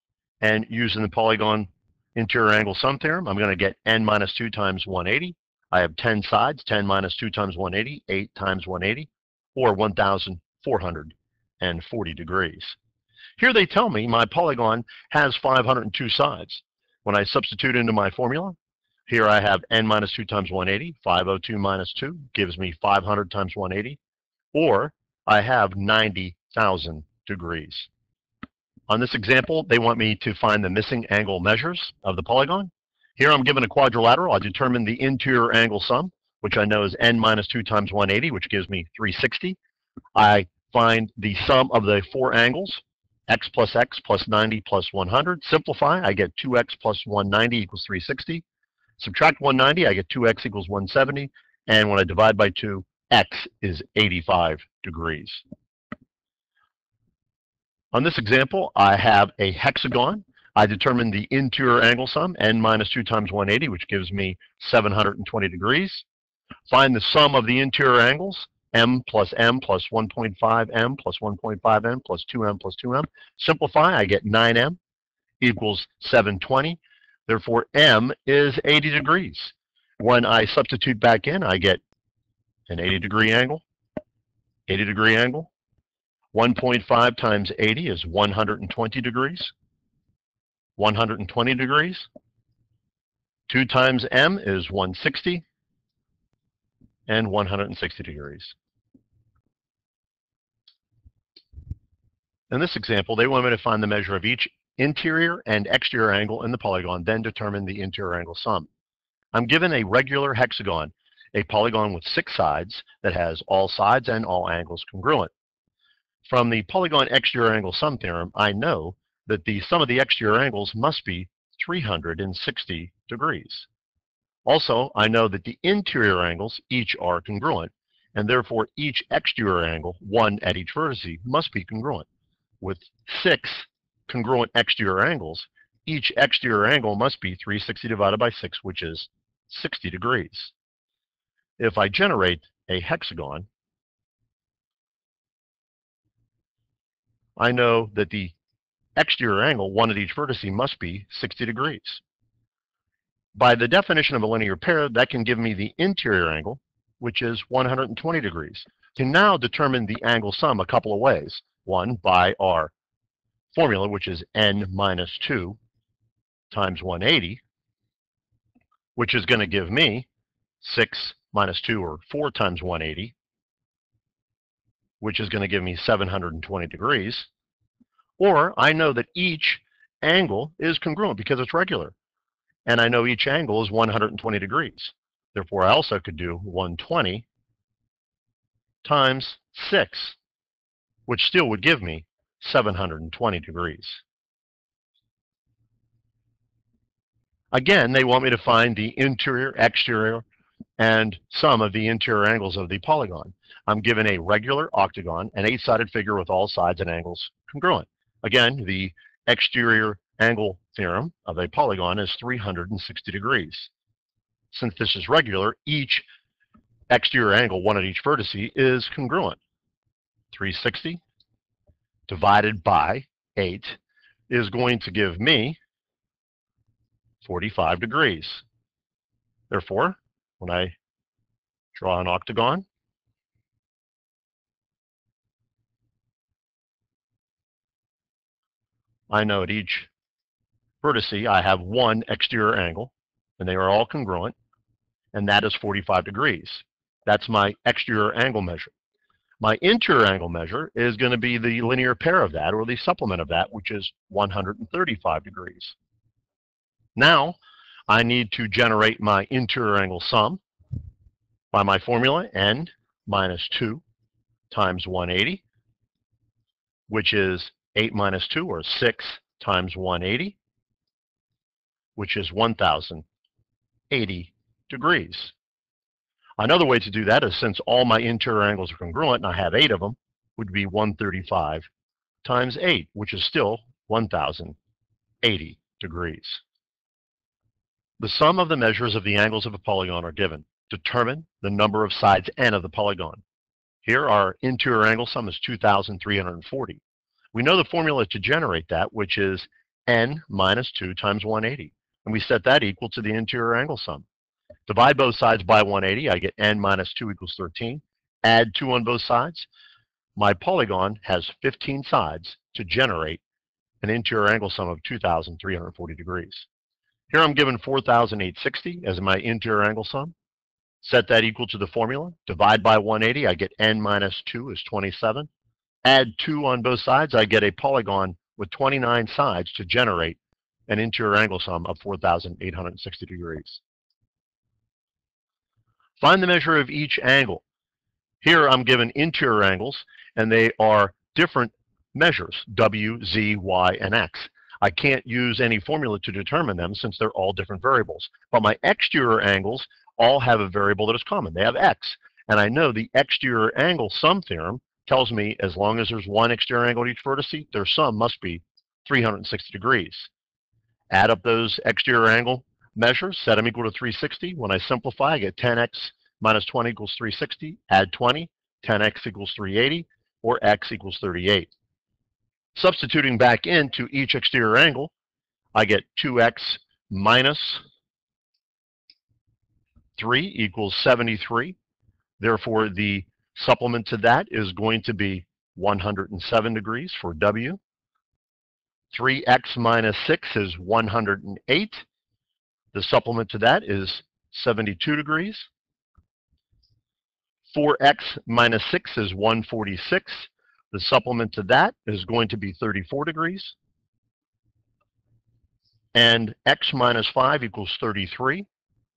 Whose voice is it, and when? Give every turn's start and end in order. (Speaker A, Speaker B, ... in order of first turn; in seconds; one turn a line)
Speaker A: 0.4-12.8
Speaker A: 13.4-18.6
Speaker A: 19.1-24.0
Speaker A: 24.5-27.9
Speaker A: 28.9-39.6
Speaker A: 40.1-48.4
Speaker A: 49.0-55.4
Speaker A: 57.9-66.0
Speaker A: 66.7-74.8
Speaker A: 75.4-81.8
Speaker A: 82.7-83.6
Speaker A: 84.7-85.5
Speaker A: 86.3-89.5
Speaker A: 90.8-92.1
Speaker A: 93.5-95.4
Speaker A: 97.1-98.5
Speaker A: 102.5-108.7
Speaker A: 109.3-115.3
Speaker A: 116.2-123.7
Speaker A: 124.4-132.1
Speaker A: 132.6-140.5
Speaker A: 141.6-143.4
Speaker A: 147.4-148.3
Speaker A: 148.9-152.0
Speaker A: 153.3-162.7
Speaker A: 163.5-165.6
Speaker A: 166.5-167.4
Speaker A: 168.9-170.1
Speaker A: 170.6-173.1
Speaker A: 175.0-177.3
Speaker A: 178.2-181.9
Speaker A: 182.7-187.2
Speaker A: 188.8-190.2
Speaker A: 191.1-194.0
Speaker A: 197.5-200.2
Speaker A: 200.8-213.7
Speaker A: 214.5-216.1
Speaker A: 216.9-219.4
Speaker A: 220.3-221.0
Speaker A: 222.1-225.6
Speaker A: 227.2-228.4
Speaker A: 229.5-230.7
Speaker A: 231.7-232.6
Speaker A: 239.1-239.9
Speaker A: 240.8-244.3
Speaker A: 245.1-248.7
Speaker A: 249.4-255.7
Speaker A: 256.9-257.4
Speaker A: 257.9-260.4
Speaker A: 261.5-263.8
Speaker A: 264.5-265.4
Speaker A: 266.9-270.4
Speaker A: 271.9-273.0
Speaker A: 273.9-275.3
Speaker A: 276.4-281.7
Speaker A: 282.2-284.6
Speaker A: 285.2-286.4
Speaker A: 288.0-293.2
Speaker A: 293.8-296.8
Speaker A: 297.3-304.1
Speaker A: 304.7-309.5
Speaker A: 310.1-313.2
Speaker A: 313.8-316.5
Speaker A: 317.1-320.1
Speaker A: 320.8-325.3
Speaker A: 325.8-333.6
Speaker A: 336.0-337.4
Speaker A: 338.2-360.1
Speaker A: 360.9-371.5
Speaker A: 372.5-374.9
Speaker A: 375.5-377.6
Speaker A: 380.0-381.6
Speaker A: 382.2-387.6
Speaker A: 388.9-391.8
Speaker A: 392.7-395.5
Speaker A: 397.5-403.6
Speaker A: 405.9-408.5